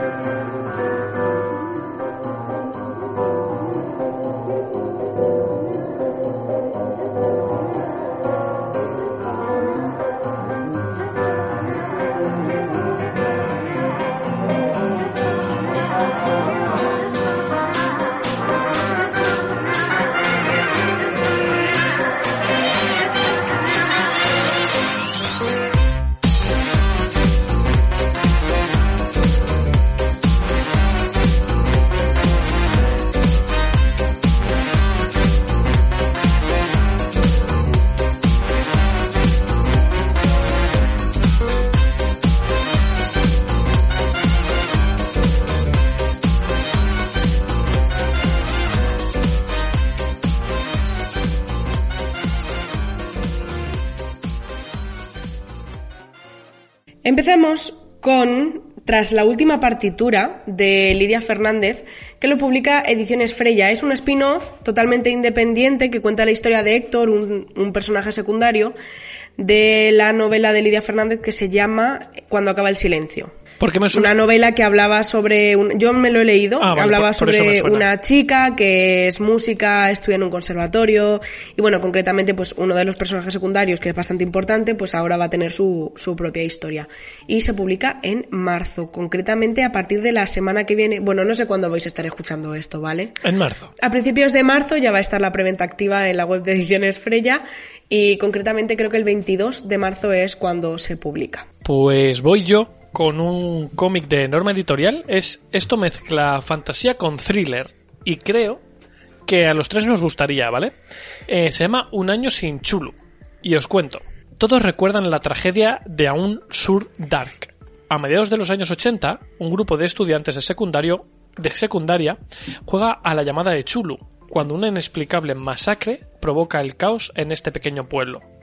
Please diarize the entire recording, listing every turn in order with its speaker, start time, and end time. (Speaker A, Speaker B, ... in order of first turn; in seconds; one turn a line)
Speaker A: 57.0-68.7
Speaker A: 69.4-73.3
Speaker B: 73.6-74.1
Speaker A: 73.9-93.2
Speaker B: 76.6-77.9
Speaker B: 93.2-93.7
Speaker A: 93.8-101.5
Speaker B: 101.6-108.6
Speaker B: 109.2-110.7
Speaker B: 111.3-128.2